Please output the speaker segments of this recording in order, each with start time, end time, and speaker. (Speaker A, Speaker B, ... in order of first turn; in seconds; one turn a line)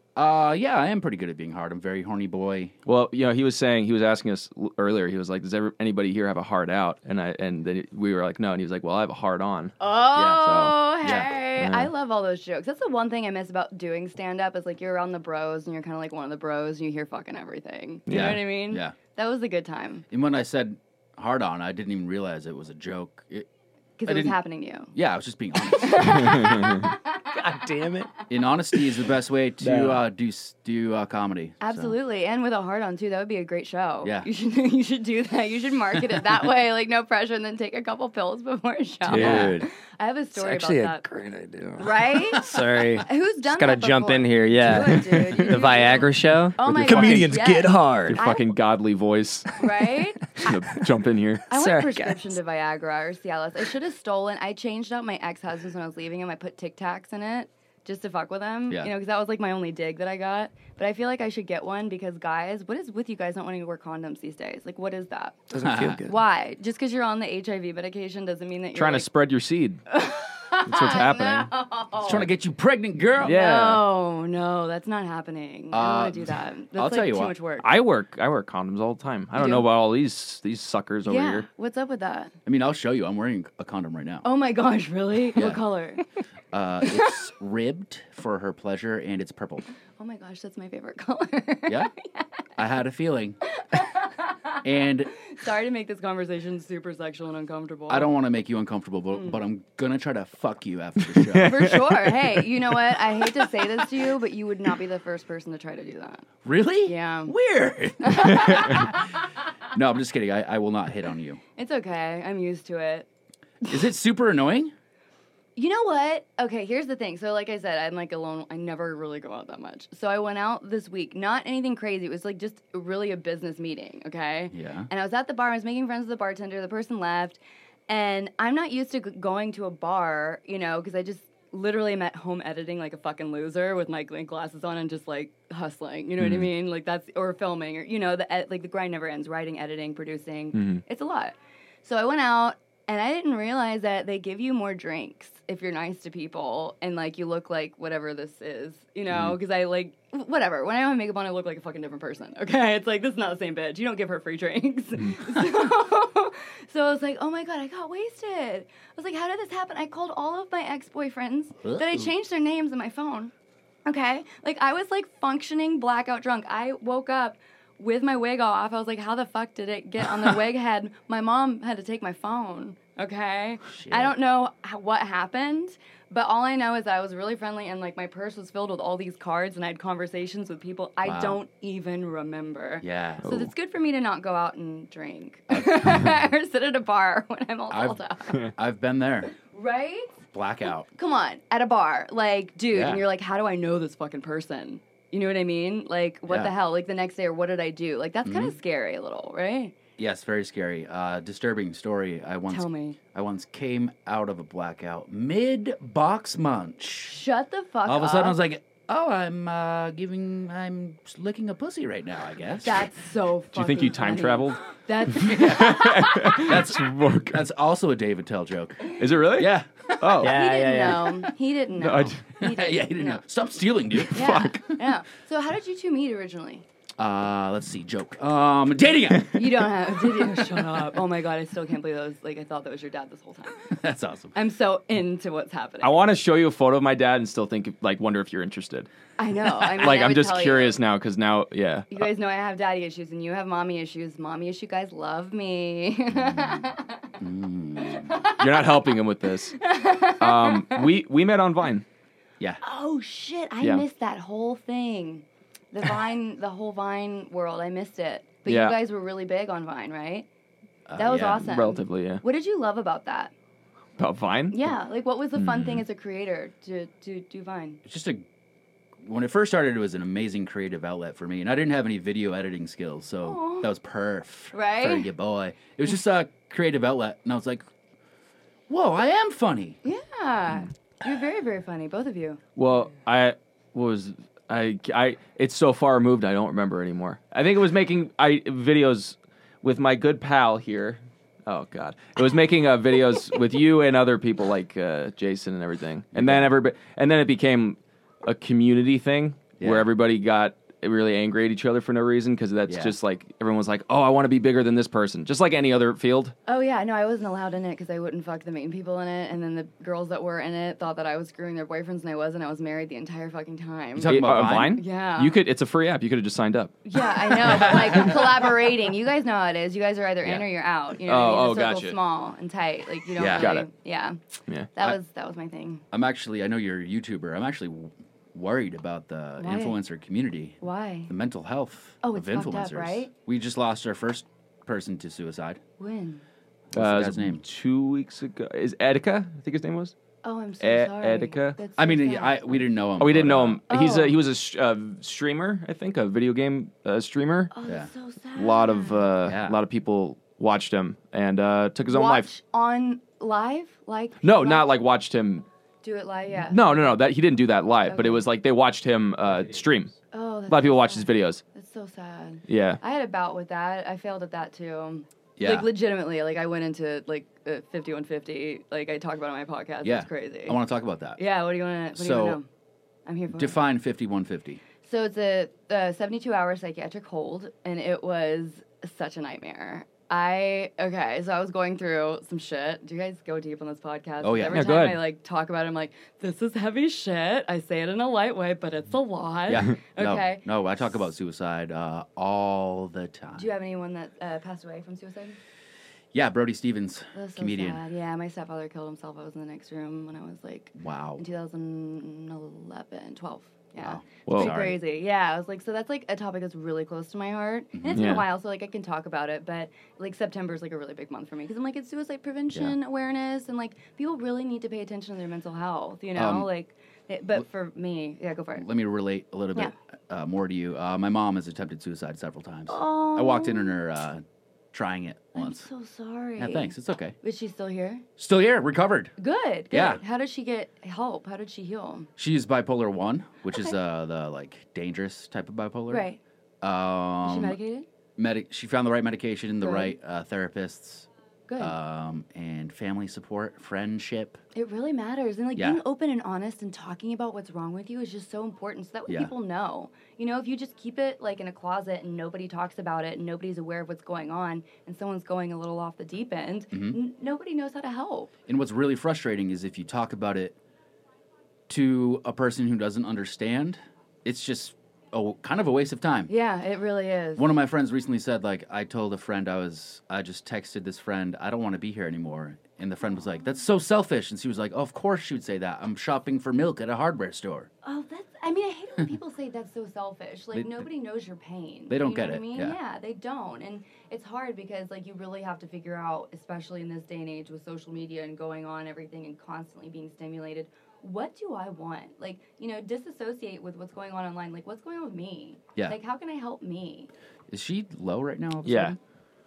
Speaker A: 0.1-2.8
Speaker B: 2.9-9.7
Speaker C: 9.8-20.1
Speaker A: 10.1-11.4
Speaker B: 10.4-10.7
Speaker B: 11.6-11.9
Speaker B: 18.1-18.4
Speaker A: 18.1-18.9
Speaker A: 20.1-23.5
Speaker C: 24.0-24.9
Speaker A: 24.1-24.4
Speaker A: 24.9-26.2
Speaker C: 25.8-27.0
Speaker B: 26.0-26.9
Speaker D: 27.3-28.1
Speaker A: 28.3-31.9
Speaker D: 28.7-29.0
Speaker D: 29.6-30.0
Speaker C: 31.6-41.0
Speaker D: 39.1-39.7
Speaker B: 39.1-39.6
Speaker A: 39.1-39.5
Speaker D: 40.3-48.2
Speaker C: 41.8-48.5
Speaker B: 46.8-47.3
Speaker B: 48.0-49.6
Speaker C: 49.6-50.5
Speaker B: 50.3-51.4
Speaker C: 51.5-69.1
Speaker D: 51.5-52.3
Speaker D: 65.5-66.2
Speaker A: 65.6-66.0
Speaker B: 68.7-69.8
Speaker C: 69.9-72.3
Speaker B: 70.6-71.5
Speaker A: 72.0-73.3
Speaker B: 73.2-73.8
Speaker C: 73.2-77.7
Speaker A: 75.7-77.3
Speaker B: 77.6-81.5
Speaker C: 79.3-79.7
Speaker C: 81.0-82.3
Speaker A: 82.5-84.2
Speaker C: 84.2-86.0
Speaker A: 85.3-85.6
Speaker A: 86.5-89.7
Speaker C: 86.8-87.1
Speaker C: 90.0-92.3
Speaker A: 92.6-93.4
Speaker C: 93.5-94.6
Speaker A: 94.6-95.1
Speaker C: 95.1-98.1
Speaker A: 97.9-101.6
Speaker B: 101.2-102.6
Speaker C: 101.3-106.3
Speaker A: 106.4-108.9
Speaker C: 106.8-107.3
Speaker C: 108.0-109.0
Speaker A: 109.7-111.4
Speaker C: 111.6-113.1
Speaker A: 113.6-114.7
Speaker C: 115.5-127.4
Speaker A: 124.5-124.9
Speaker C: 127.9-163.3
Speaker B: 136.2-136.5
Speaker B: 140.5-140.8
Speaker B: 155.0-155.2
Speaker A: 161.6-162.0
Speaker C: 163.8-188.5
Speaker A: 173.7-174.1
Speaker A: 181.0-181.4
Speaker A: 182.8-183.3
Speaker B: 183.2-183.5
Speaker A: 187.7-189.3
Speaker C: 189.4-190.1
Speaker A: 190.3-190.9
Speaker C: 190.9-199.7
Speaker A: 192.7-193.0
Speaker A: 196.3-196.5
Speaker A: 198.2-198.5
Speaker A: 200.0-207.2
Speaker C: 202.5-203.0
Speaker C: 207.1-208.4
Speaker A: 207.8-212.8
Speaker C: 212.6-216.4
Speaker B: 213.5-217.4
Speaker A: 215.2-220.2
Speaker B: 219.0-220.4
Speaker D: 220.2-221.1
Speaker C: 220.2-223.2
Speaker B: 221.8-222.3
Speaker A: 222.4-224.7
Speaker B: 224.0-224.6
Speaker C: 224.1-226.6
Speaker A: 227.0-230.5
Speaker C: 229.3-233.7
Speaker A: 233.7-234.3
Speaker C: 234.3-235.9
Speaker B: 235.8-238.9
Speaker C: 239.2-240.8
Speaker B: 239.6-242.1
Speaker C: 241.9-247.1
Speaker A: 246.1-248.2
Speaker C: 247.8-248.8
Speaker B: 248.4-249.6
Speaker C: 249.6-250.9
Speaker B: 250.2-251.8
Speaker C: 252.6-260.2
Speaker B: 258.4-258.8
Speaker A: 260.9-261.5
Speaker C: 261.0-263.3
Speaker B: 261.4-262.2
Speaker B: 264.0-264.7
Speaker C: 264.5-267.8
Speaker B: 265.4-265.8
Speaker A: 267.8-268.2
Speaker A: 269.0-277.6
Speaker C: 273.2-273.7
Speaker C: 274.5-275.1
Speaker A: 278.7-279.8
Speaker C: 279.8-282.4
Speaker B: 282.6-306.3
Speaker A: 296.1-296.5
Speaker A: 299.6-299.9
Speaker A: 302.7-302.9
Speaker C: 306.4-315.4
Speaker A: 313.9-314.8
Speaker B: 314.0-316.8
Speaker C: 316.9-324.2
Speaker B: 317.3-318.0
Speaker B: 321.0-322.0
Speaker A: 323.2-323.5
Speaker B: 323.3-323.7
Speaker C: 324.7-325.8
Speaker A: 325.9-335.6
Speaker C: 329.4-329.8
Speaker C: 330.6-331.1
Speaker C: 332.0-333.1
Speaker C: 335.8-336.2
Speaker A: 336.7-337.4
Speaker B: 336.7-339.9
Speaker C: 340.2-342.6
Speaker B: 340.6-341.6
Speaker A: 341.8-343.6
Speaker B: 343.0-347.5
Speaker C: 343.7-344.2
Speaker C: 347.5-349.1
Speaker B: 348.4-352.3
Speaker A: 349.2-349.6
Speaker C: 351.9-354.7
Speaker B: 354.2-355.4
Speaker C: 355.8-356.7
Speaker B: 356.5-359.9
Speaker C: 357.9-358.2
Speaker C: 360.1-370.6
Speaker B: 360.5-361.4
Speaker B: 362.5-362.8
Speaker A: 365.4-365.7
Speaker A: 369.8-371.2
Speaker C: 371.2-372.4
Speaker A: 371.9-372.4
Speaker C: 373.1-373.6
Speaker A: 373.3-374.6
Speaker C: 374.8-390.4
Speaker A: 384.2-384.6
Speaker B: 384.5-385.0
Speaker A: 389.5-393.5
Speaker C: 393.4-395.4
Speaker A: 396.1-397.8
Speaker C: 397.1-418.6
Speaker A: 400.8-401.2
Speaker A: 403.8-404.8
Speaker B: 404.3-404.5
Speaker A: 407.7-408.1
Speaker B: 407.9-408.2
Speaker A: 416.1-416.5
Speaker A: 418.6-425.6
Speaker C: 422.7-423.7
Speaker C: 425.4-428.0
Speaker A: 426.4-427.1
Speaker A: 428.2-429.1
Speaker C: 429.2-432.1
Speaker A: 429.7-430.0
Speaker A: 432.2-436.1
Speaker C: 435.9-436.2
Speaker A: 436.6-437.6
Speaker C: 437.2-437.9
Speaker A: 438.2-441.1
Speaker C: 439.6-439.9
Speaker C: 441.5-441.7
Speaker A: 441.6-444.4
Speaker C: 444.5-458.3
Speaker A: 456.7-457.0
Speaker A: 458.5-460.6
Speaker A: 461.7-466.3
Speaker C: 466.3-467.5
Speaker A: 467.4-477.7
Speaker C: 477.8-497.1
Speaker A: 481.9-482.8
Speaker A: 497.5-499.0
Speaker B: 498.6-498.9